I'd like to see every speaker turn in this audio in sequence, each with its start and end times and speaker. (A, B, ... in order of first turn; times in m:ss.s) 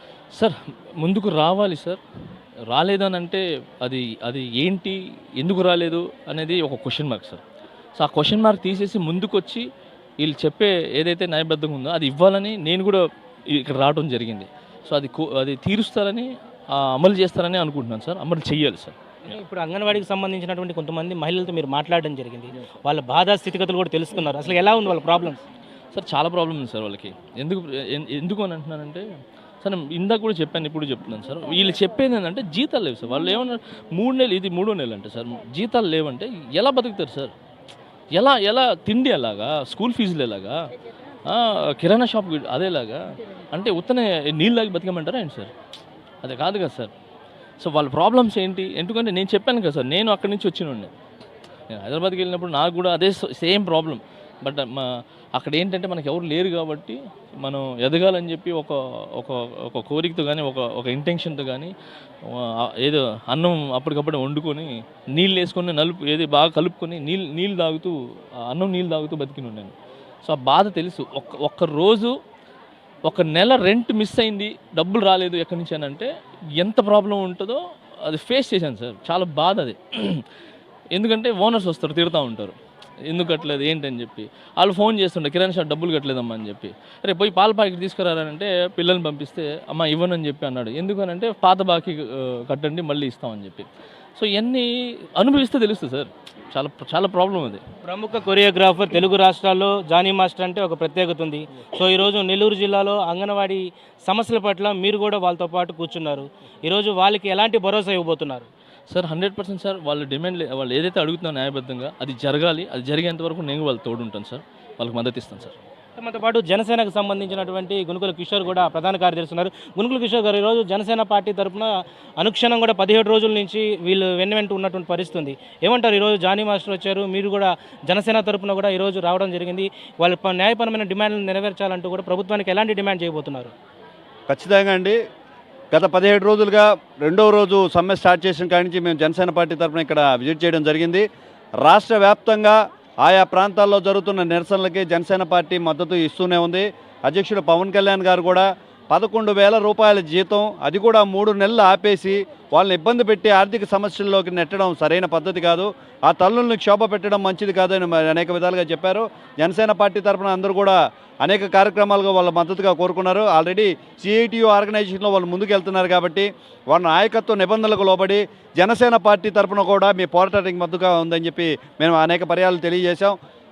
0:00.3-0:02.0 A
0:02.7-0:07.4 A
0:08.0-0:09.6 A
0:10.2-0:19.0 A
0:19.2-0:25.4 B
0:25.9-0:29.0 A
0:29.6-0:37.3 A
0:38.1-0:40.6 A
0:41.2-0:45.5 A
0:46.2-0:46.9 A
0:47.6-0:50.9 A
0:51.7-1:01.7 A
1:02.2-1:12.1 A
1:13.0-1:20.2 A
1:20.9-1:37.6 A
1:37.8-1:48.5 B
1:48.9-1:55.6 A
1:56.0-2:13.5 B
2:14.3-2:15.0 C
2:15.7-2:21.0 C
2:21.6-2:53.2 C